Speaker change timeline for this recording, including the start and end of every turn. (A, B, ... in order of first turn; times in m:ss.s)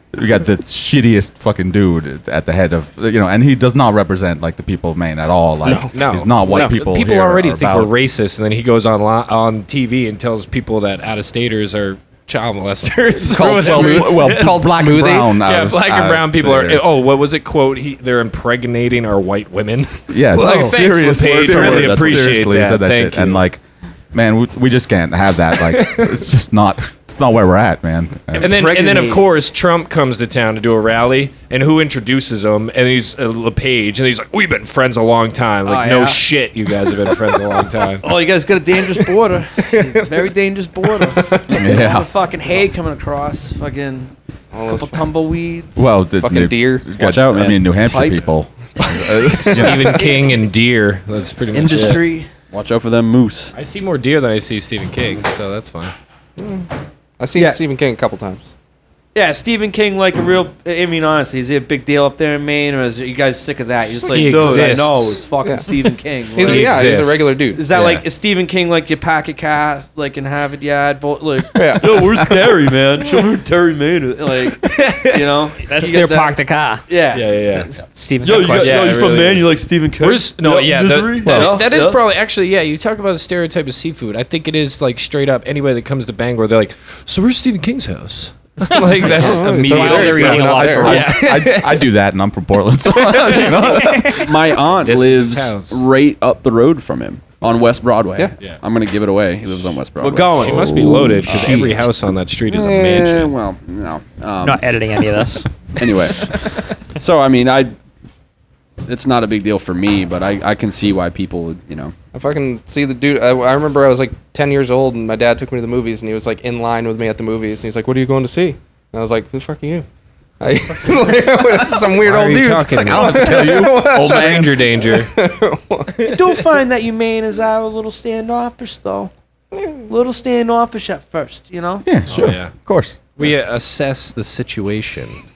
0:00.1-0:07.9 A
0:05.6-0:06.7 B
0:05.9-0:14.3 C
0:13.2-0:15.4 B
0:13.5-0:16.9 A
0:15.3-0:23.4 C
0:20.1-0:28.6 A
0:20.5-0:22.4 D
0:25.8-0:26.0 C
0:28.3-0:38.0 C
0:28.4-0:29.2 E
0:35.6-0:36.2 E
0:38.0-0:45.8 E
0:41.5-0:42.1 A
0:44.5-0:45.1 B
0:45.8-0:49.9 A
0:46.2-0:47.0 B
0:47.0-0:47.9 D
0:47.8-0:50.2 E
0:49.5-0:52.1 C
0:51.5-0:52.3 E
0:52.5-0:53.5 D
0:53.5-0:55.9 C
0:56.4-0:58.5 B
0:57.3-0:57.6 E
0:59.1-1:22.0 E
1:04.0-1:05.2 C
1:04.2-1:04.7 B
1:06.3-1:07.6 B
1:06.4-1:07.8 C
1:11.5-1:12.5 B
1:14.7-1:15.1 C
1:15.7-1:16.8 F
1:17.1-1:17.7 C
1:17.7-1:19.2 F
1:18.5-1:31.9 C
1:21.2-1:21.7 A
1:28.6-1:31.4 F
1:29.0-1:31.1 B
1:30.7-1:34.3 A
1:33.1-1:34.2 F
1:34.1-1:41.8 D
1:34.7-1:35.8 C
1:40.0-1:41.1 E
1:40.4-1:43.3 C
1:41.3-1:41.7 A
1:42.5-1:45.1 D
1:44.4-1:46.4 F
1:45.8-1:47.7 D
1:48.8-1:51.9 D
1:52.1-1:59.8 B
2:00.4-2:06.5 B
2:02.0-2:05.1 C
2:02.7-2:04.6 A
2:06.0-2:09.1 E
2:09.8-2:11.8 E
2:11.8-2:13.0 A
2:12.1-2:12.6 C
2:13.2-2:15.2 C